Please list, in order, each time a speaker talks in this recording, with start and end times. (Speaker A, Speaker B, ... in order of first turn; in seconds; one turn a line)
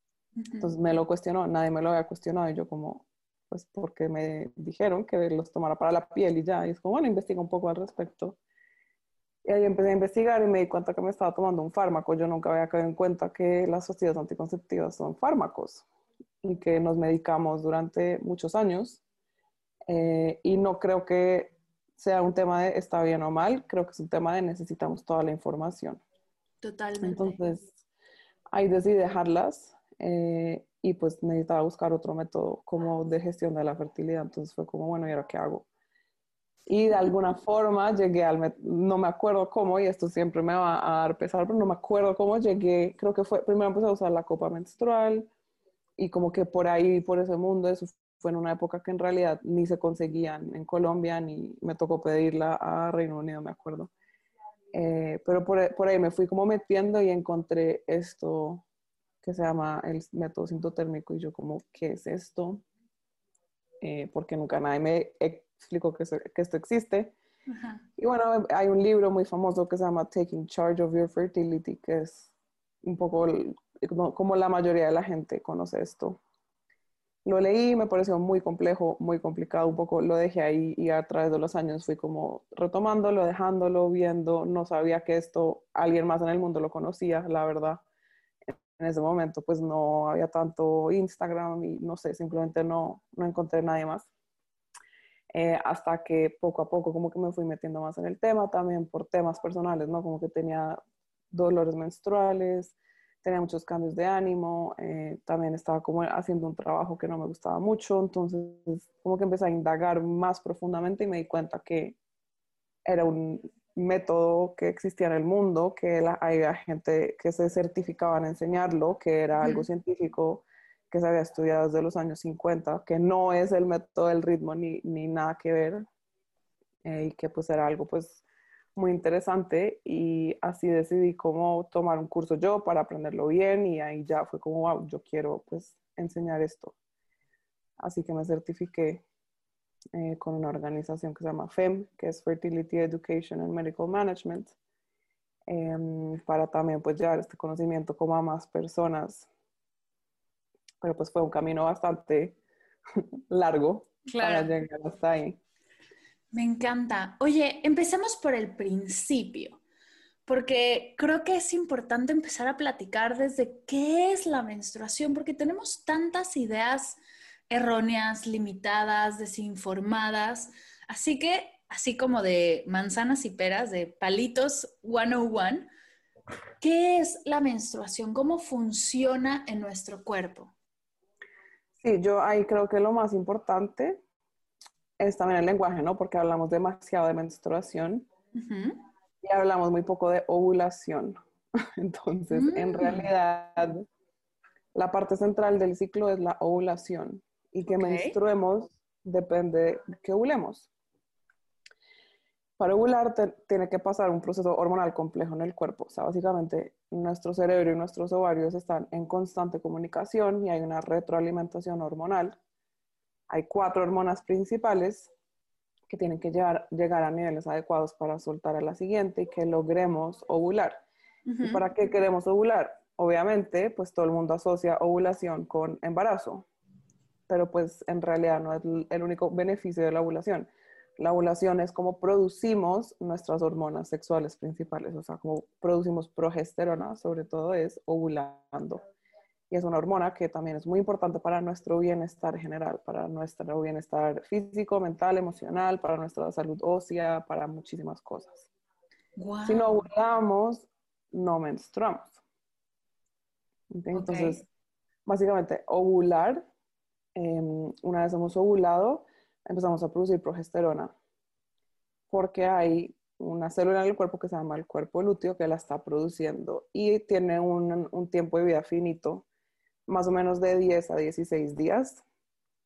Speaker A: 0.4-0.7
Speaker B: 0.6-8.4
Speaker B: 9.4-15.8
Speaker B: 16.4-19.0
Speaker B: 19.9-26.0
Speaker A: 26.6-27.4
Speaker B: 27.0-27.7
Speaker B: 28.5-35.6
Speaker B: 36.7-45.3
Speaker B: 46.0-53.9
Speaker B: 54.7-58.6
Speaker B: 59.2-62.6
Speaker B: 63.8-67.1
Speaker A: 67.5-67.8
Speaker B: 68.0-72.3
Speaker B: 72.8-76.2
Speaker B: 77.2-87.8
Speaker B: 88.5-94.1
Speaker B: 95.3-100.8
Speaker B: 101.3-112.0
Speaker B: 112.8-125.8
Speaker A: 119.4-119.7
Speaker B: 126.8-128.2
Speaker B: 128.7-136.7
Speaker B: 137.8-139.0
Speaker B: 139.9-144.5
Speaker B: 145.5-149.3
Speaker B: 150.8-152.4
Speaker B: 153.0-155.4
Speaker A: 154.1-154.5
Speaker A: 156.3-159.6
Speaker A: 160.3-175.7
Speaker A: 176.6-180.5
Speaker B: 181.8-184.0
Speaker B: 185.0-188.1
Speaker A: 188.3-188.8
Speaker B: 189.2-193.8
Speaker A: 192.3-193.1
Speaker B: 194.7-200.7
Speaker A: 197.7-198.2
Speaker B: 202.6-212.4
Speaker B: 213.3-215.1
Speaker B: 215.9-220.8
Speaker A: 221.3-221.6
Speaker B: 221.4-226.4
Speaker B: 227.3-238.8
Speaker B: 239.5-248.5
Speaker A: 249.2-249.9
Speaker B: 249.5-252.1
Speaker B: 253.7-254.4
Speaker A: 253.9-254.4
Speaker B: 255.1-256.5
Speaker B: 257.1-260.9
Speaker B: 262.1-269.2
Speaker B: 269.9-272.0